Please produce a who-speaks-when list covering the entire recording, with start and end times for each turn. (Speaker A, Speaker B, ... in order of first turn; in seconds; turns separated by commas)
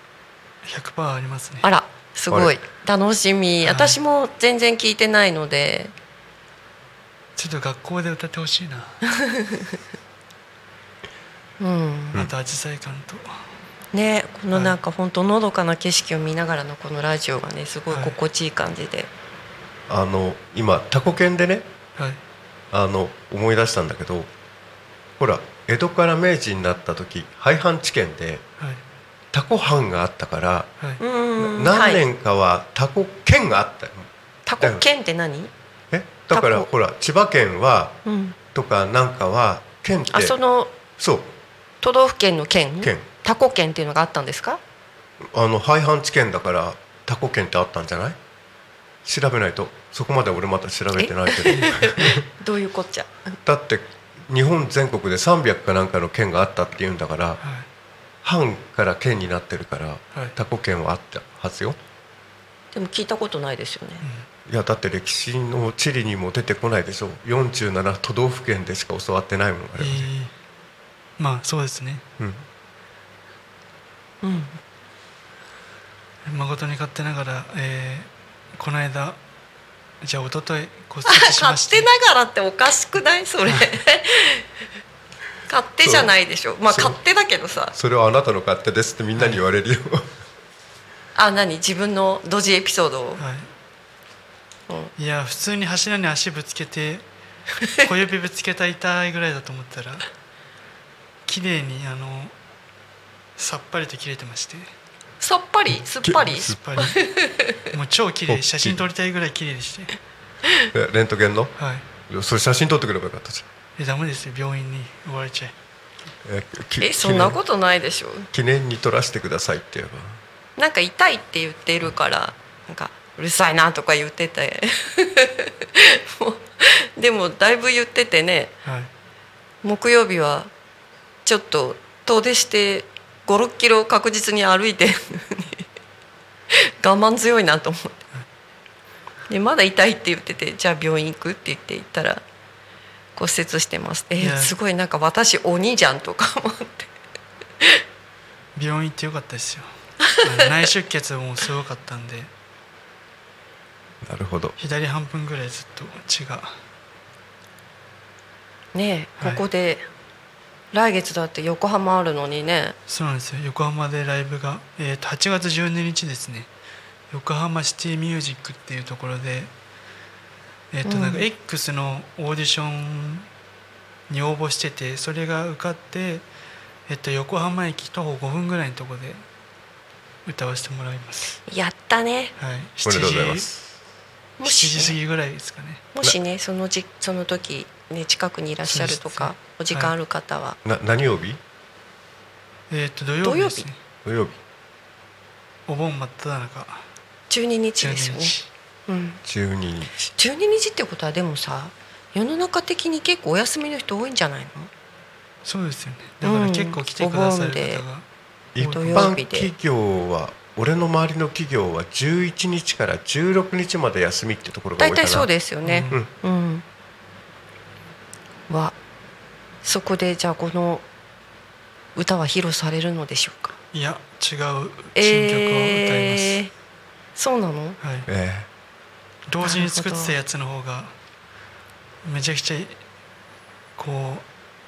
Speaker A: 0.6-1.7, Speaker B: 1.6-5.9, Speaker A: 3.6-4.0, Speaker A: 7.4-9.0, Speaker B: 9.1-9.8, Speaker B: 11.6-12.2, Speaker A: 12.1-13.3, Speaker B: 13.9-19.1, Speaker A: 17.9-18.2, Speaker C: 19.9-21.7, Speaker C: 22.7-24.3, Speaker C: 25.2-28.4, Speaker C: 29.3-30.7, Speaker B: 31.0-32.0, Speaker C: 31.4-34.1, Speaker B: 34.5-35.5, Speaker C: 35.9-38.0, Speaker B: 36.3-36.7, Speaker B: 38.0-38.4, Speaker C: 38.5-40.4, Speaker B: 40.1-40.8, Speaker C: 41.0-41.3, Speaker B: 41.8-44.6, Speaker C: 45.2-48.2, Speaker C: 49.0-52.2, Speaker B: 51.0-53.3, Speaker C: 53.5-57.4, Speaker A: 57.4-57.7, Speaker C: 58.2-61.8, Speaker B: 62.7-64.1, Speaker A: 64.0-64.3, Speaker C: 64.5-70.1, Speaker A: 69.8-70.3, Speaker A: 71.2-72.0, Speaker C: 72.2-72.5, Speaker B: 74.2-74.6, Speaker A: 76.2-79.2, Speaker A: 80.0-81.9, Speaker B: 81.1-84.5, Speaker B: 85.5-87.7, Speaker C: 85.8-86.1, Speaker C: 86.7-87.0, Speaker C: 87.7-90.1, Speaker B: 91.2-93.2, Speaker A: 93.2-93.5, Speaker A: 95.0-97.0, Speaker A: 97.7-100.1, Speaker A: 101.3-102.3, Speaker A: 103.4-104.7, Speaker B: 105.2-107.7, Speaker A: 106.2-107.1, Speaker A: 107.7-110.0, Speaker C: 108.3-108.8, Speaker C: 110.7-111.5, Speaker A: 111.6-111.9, Speaker C: 112.1-113.5, Speaker A: 113.8-115.5, Speaker C: 116.2-117.4, Speaker B: 116.8-118.3, Speaker C: 118.3-120.2, Speaker B: 120.6-128.5, Speaker A: 128.7-128.9, Speaker B: 129.6-130.5, Speaker B: 131.2-135.7, Speaker B: 136.5-138.1, Speaker B: 139.3-142.2, Speaker B: 143.2-146.9, Speaker A: 144.2-144.6, Speaker A: 148.6-152.3, Speaker C: 154.0-154.6, Speaker A: 154.6-156.6, Speaker B: 158.7-159.9, Speaker B: 160.7-162.8, Speaker A: 162.9-166.5, Speaker A: 167.1-169.5, Speaker A: 170.7-173.3, Speaker B: 170.8-171.3, Speaker A: 174.1-176.2, Speaker A: 176.9-179.2, Speaker A: 180.3-181.4, Speaker B: 181.5-182.3, Speaker A: 182.4-183.7, Speaker C: 182.8-183.5, Speaker B: 184.4-185.0, Speaker A: 184.4-185.8, Speaker B: 185.9-190.6, Speaker A: 188.7-189.9, Speaker C: 190.7-191.4, Speaker A: 192.7-193.8, Speaker B: 193.2-193.7, Speaker C: 194.1-194.4, Speaker A: 195.7-196.9, Speaker B: 197.3-198.3, Speaker A: 197.8-198.5, Speaker B: 198.9-199.2, Speaker C: 199.2-200.0, Speaker B: 200.2-204.7, Speaker A: 205.4-208.1, Speaker B: 206.2-207.8, Speaker C: 208.6-215.3, Speaker A: 208.6-209.1, Speaker B: 208.6-209.5, Speaker B: 214.8-216.6, Speaker A: 215.7-216.0, Speaker B: 218.5-218.8, Speaker B: 219.6-220.8, Speaker B: 221.9-223.6, Speaker A: 223.7-226.4, Speaker B: 225.0-226.5, Speaker B: 227.2-227.8, Speaker A: 227.8-228.1, Speaker C: 228.1-228.5, Speaker A: 229.3-230.9, Speaker B: 229.4-230.2, Speaker A: 232.0-232.8, Speaker A: 233.8-234.2